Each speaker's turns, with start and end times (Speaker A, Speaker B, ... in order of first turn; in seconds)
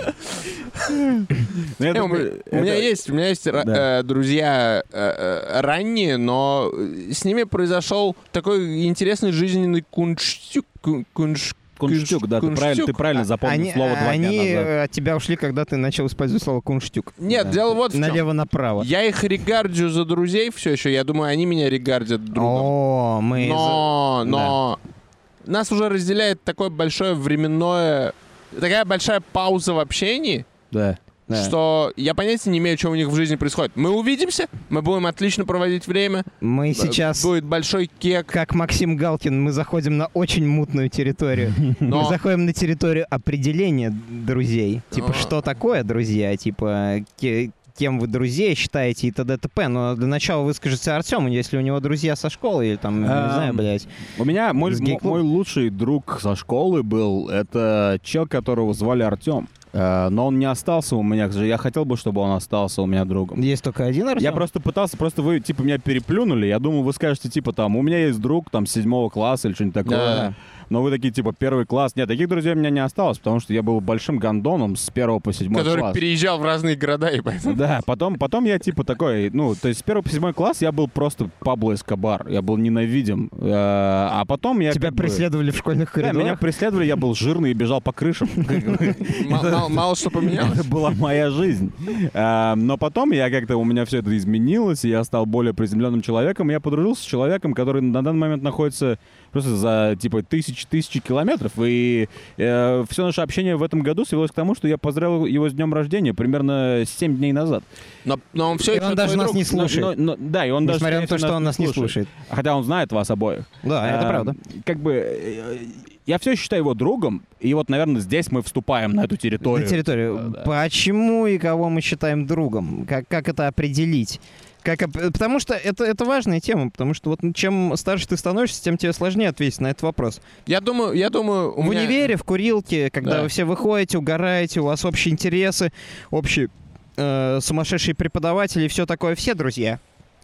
Speaker A: 0.9-3.0, 3.5-3.9, 11.8-14.7, 24.3-24.5, 30.7-31.0, 53.0-63.4, 64.2-76.0, 77.5-85.2, 86.0-107.7, 109.5-120.5
Speaker B: 1.9-13.2, 17.2-18.2, 18.8-22.7, 23.4-24.8, 25.4-30.4, 31.3-38.3, 41.8-42.2, 44.9-45.3, 69.9-70.3, 75.5-77.6, 89.0-90.6, 108.0-109.5, 130.5-132.1, 133.0-133.3
Speaker C: 13.4-17.2, 17.9-18.9, 22.3-24.5, 31.3-31.5, 36.4-37.3, 38.3-53.9, 54.6-55.2, 63.4-64.5, 70.0-70.3, 84.7-86.4, 108.7-109.9, 110.6-112.1, 113.6-114.4, 119.5-130.2, 131.6-139.8